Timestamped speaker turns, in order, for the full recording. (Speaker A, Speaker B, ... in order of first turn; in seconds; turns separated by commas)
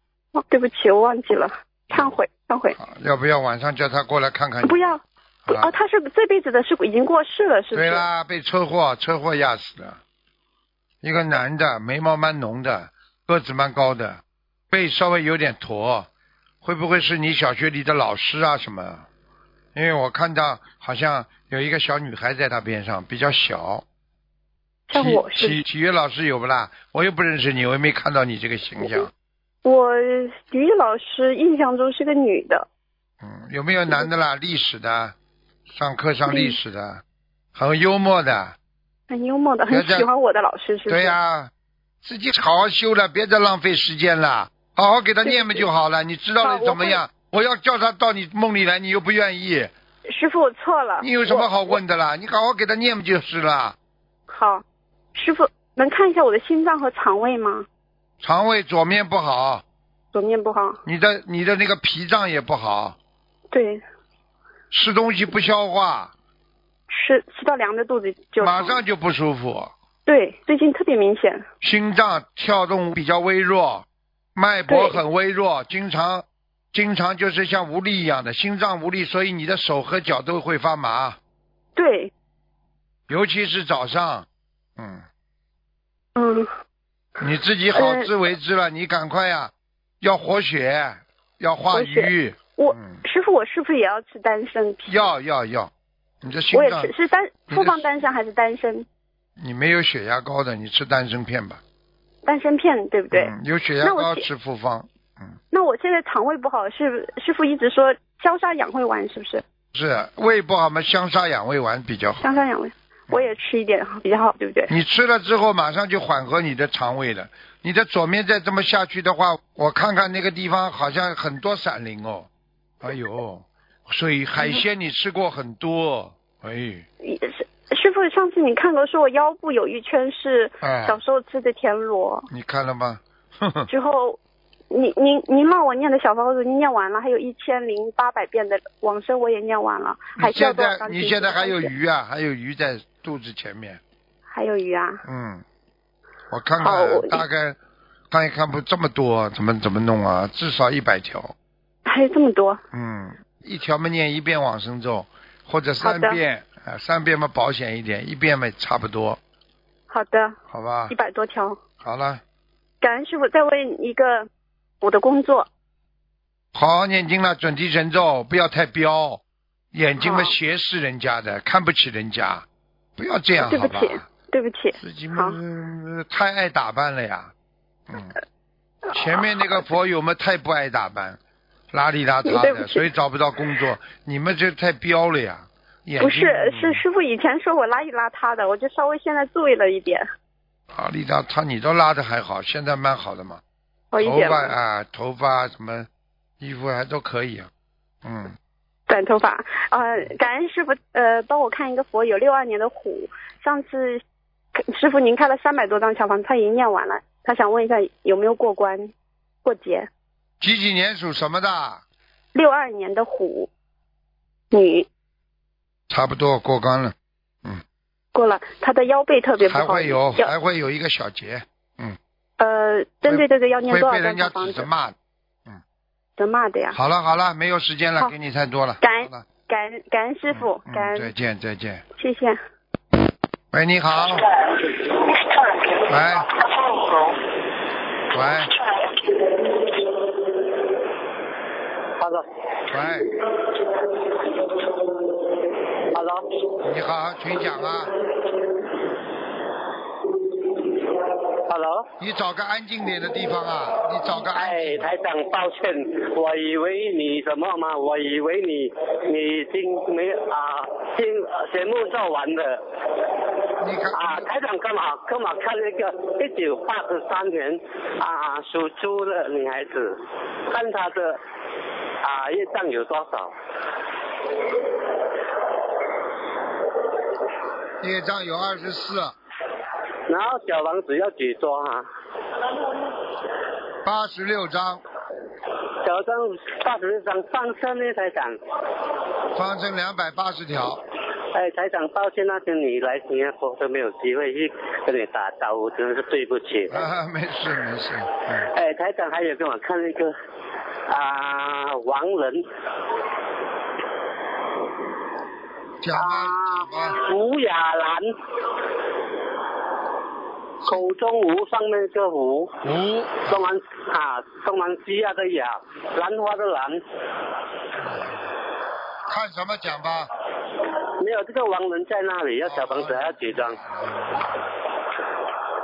Speaker A: 0.4-2.8, Speaker B: 2.8-4.9, Speaker A: 4.6-8.1, Speaker B: 5.5-5.7, Speaker B: 7.7-10.0, Speaker B: 11.0-16.1, Speaker B: 16.6-19.1, Speaker B: 19.8-23.9, Speaker A: 24.9-25.6, Speaker B: 24.9-29.1, Speaker A: 29.6-32.7, Speaker B: 33.2-35.1, Speaker B: 35.7-37.0, Speaker A: 36.3-36.6, Speaker B: 37.5-38.5, Speaker A: 39.1-41.2, Speaker B: 39.7-40.1, Speaker B: 40.9-41.5, Speaker B: 42.0-49.7, Speaker A: 45.2-45.7, Speaker A: 46.4-47.0, Speaker A: 50.1-51.8, Speaker B: 51.0-53.8, Speaker A: 54.3-57.7, Speaker B: 58.2-59.6, Speaker A: 60.1-60.8, Speaker B: 60.9-63.0, Speaker A: 63.5-63.8, Speaker B: 64.7-66.1, Speaker A: 66.9-68.8, Speaker B: 68.4-69.7, Speaker A: 70.1-71.5, Speaker B: 71.6-81.2, Speaker A: 74.7-75.0, Speaker A: 81.8-82.1, Speaker B: 83.1-84.3, Speaker B: 84.8-85.0, Speaker A: 86.2-86.5, Speaker B: 87.2-93.0, Speaker A: 87.7-88.1, Speaker A: 91.7-95.1, Speaker B: 94.9-96.9, Speaker A: 96.5-98.9, Speaker B: 97.5-97.9, Speaker B: 99.4-101.6, Speaker A: 102.2-104.3, Speaker B: 103.1-105.4, Speaker A: 105.5-109.4, Speaker B: 109.7-112.4, Speaker A: 112.2-114.7, Speaker B: 114.7-122.3, Speaker B: 122.8-126.9, Speaker A: 127.0-132.3, Speaker B: 130.6-131.0, Speaker B: 132.3-133.7, Speaker A: 133.7-134.2, Speaker A: 134.7-141.7, Speaker B: 140.2-143.8, Speaker A: 144.3-145.0, Speaker B: 145.1-145.4, Speaker B: 146.3-147.6, Speaker A: 146.6-147.2, Speaker B: 148.1-151.3, Speaker A: 151.9-152.6, Speaker B: 152.7-159.2, Speaker A: 155.8-156.2, Speaker A: 159.9-160.4, Speaker B: 160.5-160.9, Speaker A: 160.9-161.6, Speaker B: 161.8-162.2, Speaker A: 162.8-164.3, Speaker A: 164.8-165.5, Speaker B: 166.5-169.2, Speaker B: 169.7-172.5, Speaker A: 170.0-170.3, Speaker B: 173.0-174.1, Speaker A: 173.4-175.4, Speaker B: 174.8-177.3, Speaker B: 177.9-178.2, Speaker B: 178.9-181.2, Speaker B: 181.7-186.8, Speaker A: 182.2-182.9, Speaker A: 186.0-190.1, Speaker B: 190.7-193.4, Speaker A: 193.9-194.5, Speaker B: 194.0-195.9, Speaker B: 196.4-197.5, Speaker B: 198.0-198.3, Speaker A: 198.9-204.0, Speaker A: 204.6-208.9, Speaker A: 209.4-209.9, Speaker B: 210.4-211.8, Speaker A: 212.3-213.5, Speaker A: 214.5-214.9, Speaker B: 215.9-216.9, Speaker A: 218.1-220.3, Speaker B: 219.4-222.0, Speaker A: 222.4-224.7, Speaker B: 223.1-224.9, Speaker A: 226.2-226.8, Speaker B: 226.7-229.3, Speaker A: 228.8-231.1, Speaker B: 230.3-231.8, Speaker A: 232.0-232.4, Speaker B: 233.5-234.3, Speaker B: 235.9-236.4, Speaker B: 238.1-238.6, Speaker C: 242.0-242.2, Speaker B: 242.7-243.2, Speaker C: 245.9-246.5, Speaker B: 246.6-247.9, Speaker C: 251.5-251.9, Speaker B: 252.0-254.9, Speaker C: 254.3-262.6, Speaker B: 263.6-264.3, Speaker C: 263.9-270.0, Speaker C: 270.5-271.2, Speaker C: 272.0-273.3, Speaker B: 277.8-279.1, Speaker C: 280.1-281.9, Speaker B: 283.9-284.8, Speaker C: 285.8-288.4, Speaker B: 289.3-290.8, Speaker C: 291.3-296.8, Speaker B: 296.7-298.5, Speaker C: 298.5-300.1, Speaker C: 300.9-302.4, Speaker B: 305.8-307.0, Speaker C: 305.9-308.5, Speaker C: 310.6-312.5, Speaker B: 312.6-313.5, Speaker C: 313.3-316.8, Speaker B: 317.8-318.3, Speaker B: 319.1-320.1, Speaker C: 321.0-323.6, Speaker B: 322.4-324.5